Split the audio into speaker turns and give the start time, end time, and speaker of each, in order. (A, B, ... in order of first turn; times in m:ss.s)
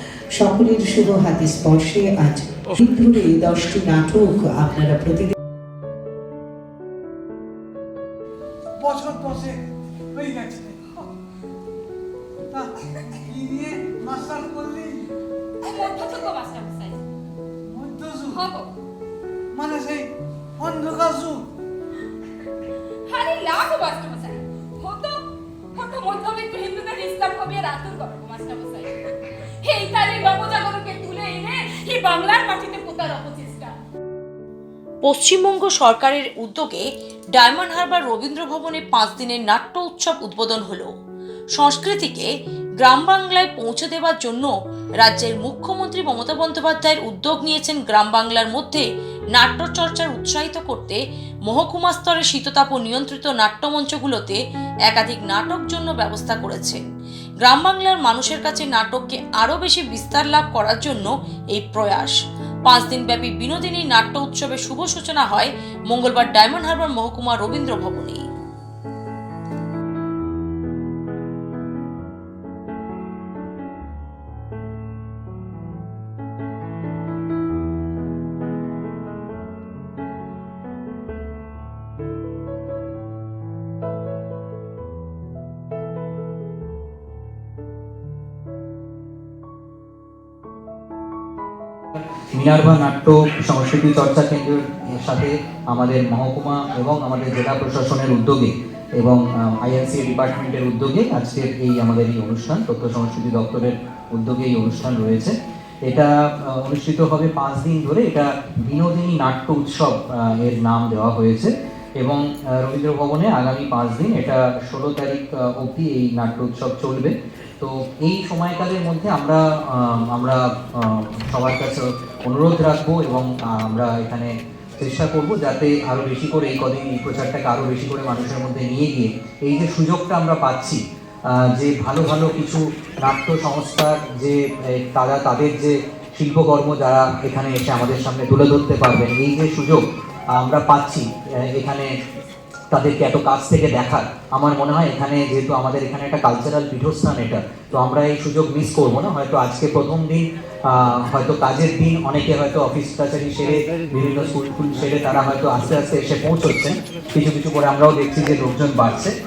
0:00.4-0:05.3 A
0:08.8-0:09.6 B
0:10.2-0:10.8 B
0:13.2-0:15.0 B
0:15.6-0:17.0 C
0:17.7-0:18.5 B
0:18.3-0:18.7 C
0:19.5-0:21.4 B
0:23.1-0:28.9 C
0:29.7-0:33.7 C
0:35.0-0:40.9 D
0:41.6-0:48.8 D
0:49.4-0:56.8 D
0:57.4-1:08.2 D
1:32.0-1:45.3 E
1:45.8-2:19.8 E
2:20.3-2:21.9 E
2:22.7-2:39.1 E